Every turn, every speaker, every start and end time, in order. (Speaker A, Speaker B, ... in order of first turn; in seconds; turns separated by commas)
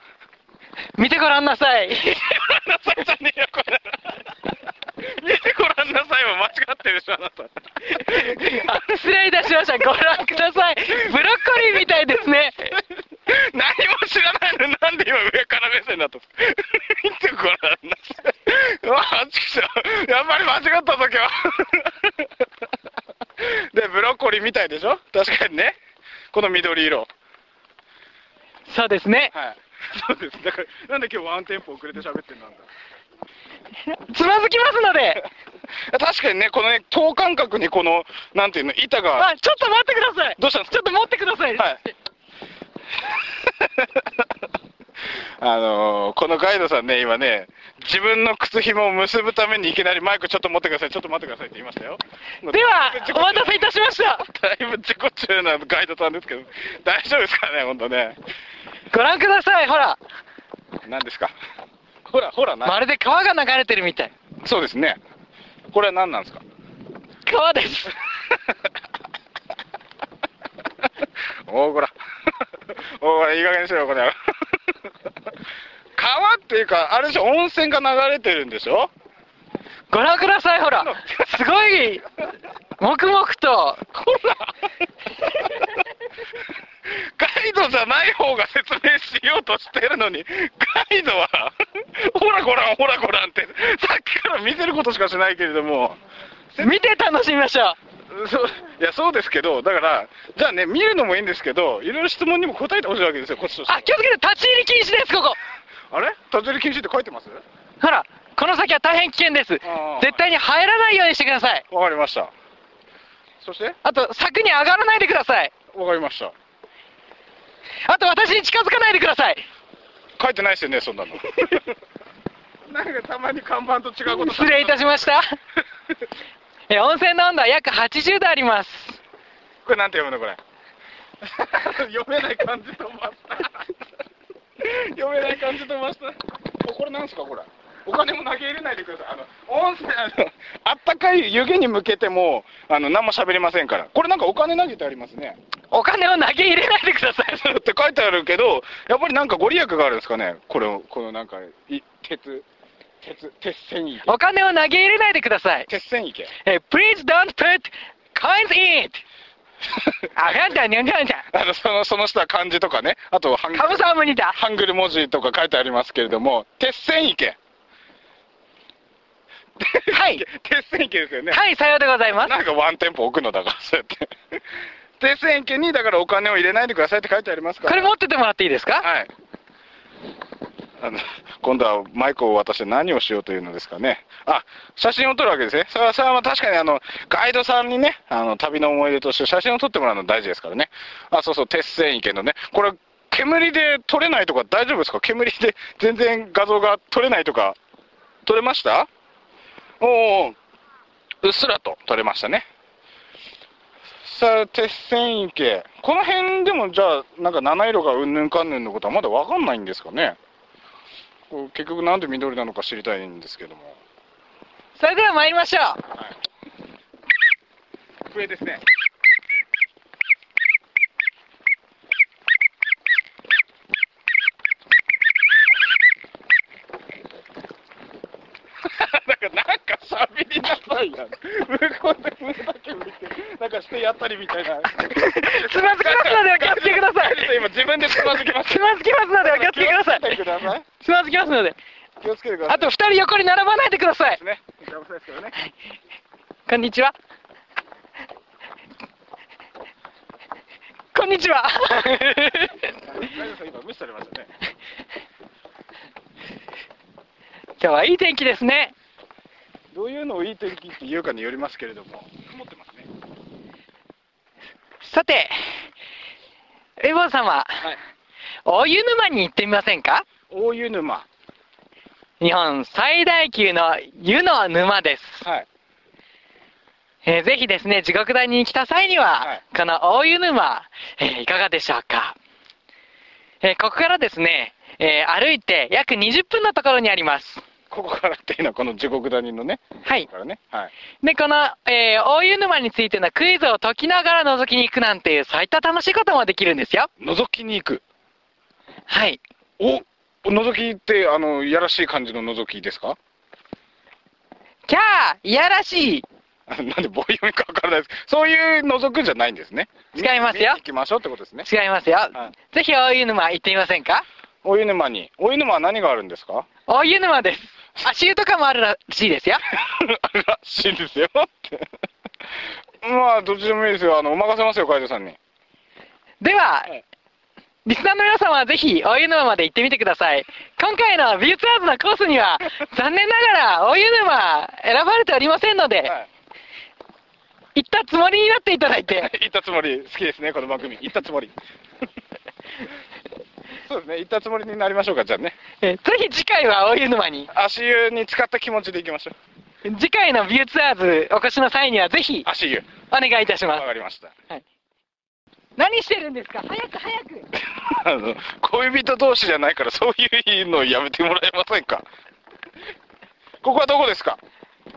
Speaker A: 1.0-2.4, Speaker B: 2.2-4.2, Speaker B: 5.0-8.7, Speaker A: 7.9-12.8, Speaker B: 13.3-22.3, Speaker B: 23.4-25.8, Speaker B: 26.3-27.1, Speaker A: 28.7-29.3, Speaker B: 29.3-32.6, Speaker A: 33.9-35.3, Speaker B: 35.9-39.3, Speaker A: 39.2-41.7, Speaker B: 40.4-40.8, Speaker B: 43.0-44.2, Speaker B: 45.1-53.7, Speaker A: 52.5-54.3, Speaker B: 54.2-58.2, Speaker A: 58.9-60.0, Speaker B: 60.9-61.4, Speaker B: 62.1-62.8, Speaker A: 62.6-64.1, Speaker B: 64.4-65.0, Speaker B: 65.7-66.4, Speaker A: 67.3-68.0, Speaker B: 71.5-74.2, Speaker B: 76.0-78.9, Speaker A: 79.9-82.0, Speaker B: 80.8-81.3, Speaker A: 82.8-83.8, Speaker B: 83.9-84.5, Speaker B: 86.9-96.0, Speaker B: 96.5-96.8, Speaker A: 96.6-97.8, Speaker B: 98.1-103.9, Speaker A: 103.7-105.4, Speaker B: 105.9-107.4, Speaker A: 107.8-111.7, Speaker B: 109.7-110.2, Speaker B: 111.7-112.3, Speaker B: 113.4-113.8, Speaker A: 113.8-115.5, Speaker B: 115.7-116.3, Speaker A: 117.8-119.5, Speaker B: 120.2-121.7, Speaker B: 122.7-124.8, Speaker A: 124.1-125.4, Speaker A: 126.7-129.0, Speaker B: 129.7-130.4, Speaker B: 131.2-133.7, Speaker B: 134.6-145.4, Speaker A: 145.7-147.5, Speaker B: 147.3-152.5, Speaker B: 153.0-154.2, Speaker A: 154.1-155.7, Speaker B: 155.7-156.3, Speaker A: 156.4-159.0, Speaker B: 159.8-160.4, Speaker A: 160.2-161.2, Speaker B: 161.3-167.4, Speaker A: 163.6-164.4, Speaker B: 169.6-171.4, Speaker A: 169.9-170.2, Speaker A: 171.3-172.3, Speaker B: 172.2-174.4, Speaker B: 175.0-177.9, Speaker A: 177.7-178.9, Speaker B: 178.8-179.1, Speaker B: 180.8-197.6, Speaker B: 198.2-198.9, Speaker B: 199.8-200.4, Speaker B: 201.2-202.5, Speaker B: 204.0-210.2, Speaker B: 211.3-213.8, Speaker A: 214.8-215.8, Speaker B: 218.1-218.6, Speaker B: 228.6-240.7, Speaker A: 234.9-237.3, Speaker A: 238.3-240.2, Speaker A: 240.8-241.6, Speaker B: 242.0-242.7, Speaker A: 242.5-244.2, Speaker B: 244.2-245.4, Speaker A: 246.5-246.9, Speaker A: 250.9-252.8, Speaker B: 252.8-254.3, Speaker A: 257.6-258.7, Speaker B: 259.7-262.9, Speaker A: 264.8-265.6, Speaker A: 266.8-267.6, Speaker A: 268.5-270.1, Speaker B: 270.3-271.1, Speaker A: 272.2-275.2, Speaker A: 277.1-282.2, Speaker A: 283.4-287.4, Speaker B: 287.7-290.7, Speaker A: 291.0-296.9, Speaker B: 297.0-297.8, Speaker A: 298.9-299.2, Speaker B: 299.6-303.0, Speaker A: 304.7-306.1, Speaker B: 306.5-311.5, Speaker A: 309.9-310.6, Speaker A: 311.4-314.1, Speaker B: 314.4-316.5, Speaker A: 316.7-319.4, Speaker B: 319.5-321.6, Speaker B: 322.8-325.2, Speaker A: 326.2-326.7, Speaker A: 327.6-335.9, Speaker A: 337.6-339.1, Speaker B: 339.0-341.3, Speaker B: 343.7-345.4, Speaker A: 345.6-347.3, Speaker B: 347.3-349.1, Speaker A: 349.6-352.3, Speaker B: 352.3-352.7, Speaker A: 352.9-353.6, Speaker B: 353.5-354.1, Speaker A: 355.6-357.3, Speaker B: 357.4-361.9, Speaker B: 363.4-364.2